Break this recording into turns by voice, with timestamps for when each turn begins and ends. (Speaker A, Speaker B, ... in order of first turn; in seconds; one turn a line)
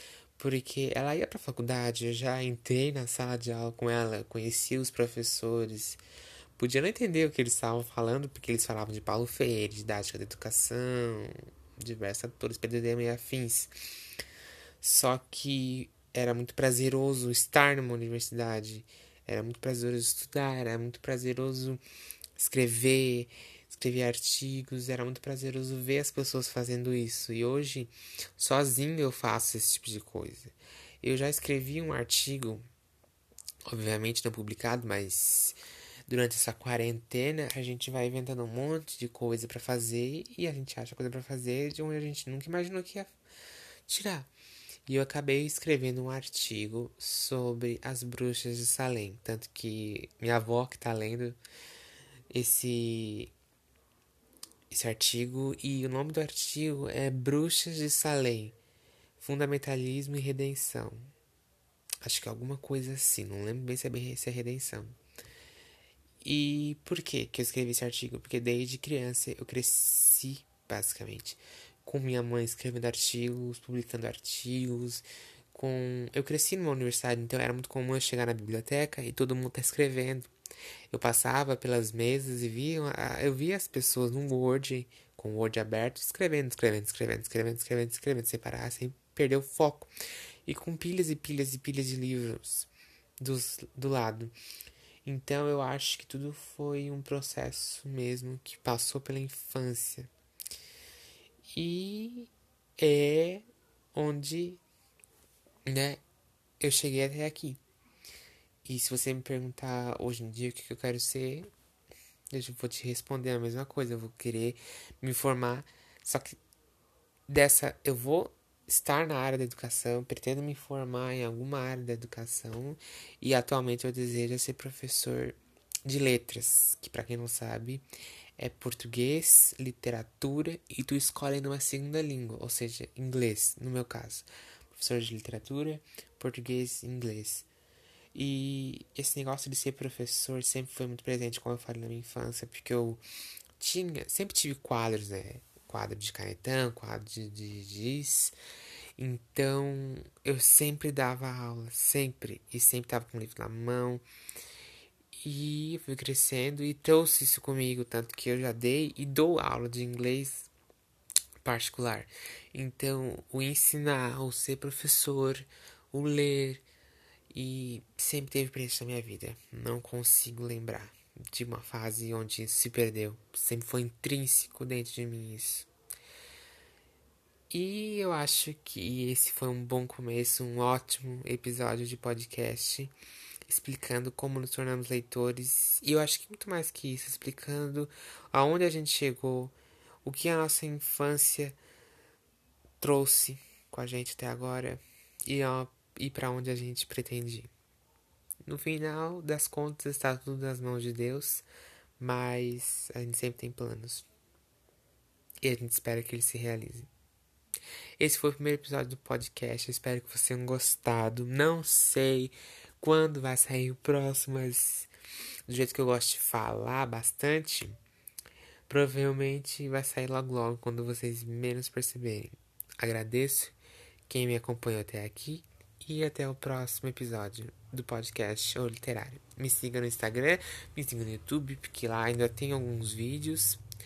Speaker A: 0.4-6.0
Speaker A: 6.6-13.9
Speaker A: 14.8-21.8
Speaker A: 22.4-32.6
Speaker A: 33.7-43.1
Speaker A: 43.9-44.3
Speaker A: 44.9-51.4
Speaker A: 52.3-53.3
Speaker A: 54.7-58.5
Speaker A: 59.2-61.1
Speaker A: 62.0-65.0
Speaker A: 66.2-80.3
Speaker A: 80.9-89.9
Speaker A: 90.5-94.3
Speaker A: 95.0-100.1
Speaker A: 101.5-104.6
Speaker A: 105.7-106.0
Speaker A: 106.6-107.6
Speaker A: 108.7-111.5
Speaker A: 112.3-116.4
Speaker A: 117.3-127.8
Speaker A: 128.4-137.5
Speaker A: 138.2-143.0
Speaker A: 143.6-148.3
Speaker A: 149.0-154.0
Speaker A: 155.2-160.5
Speaker A: 161.4-166.6
Speaker A: 167.3-175.7
Speaker A: 177.5-182.9
Speaker A: 183.5-191.6
Speaker A: 192.8-197.5
Speaker A: 198.4-201.5
Speaker A: 202.0-204.1
Speaker A: 205.4-206.9
Speaker A: 208.0-214.9
Speaker A: 215.5-217.8
Speaker A: 218.7-223.6
Speaker A: 224.1-233.6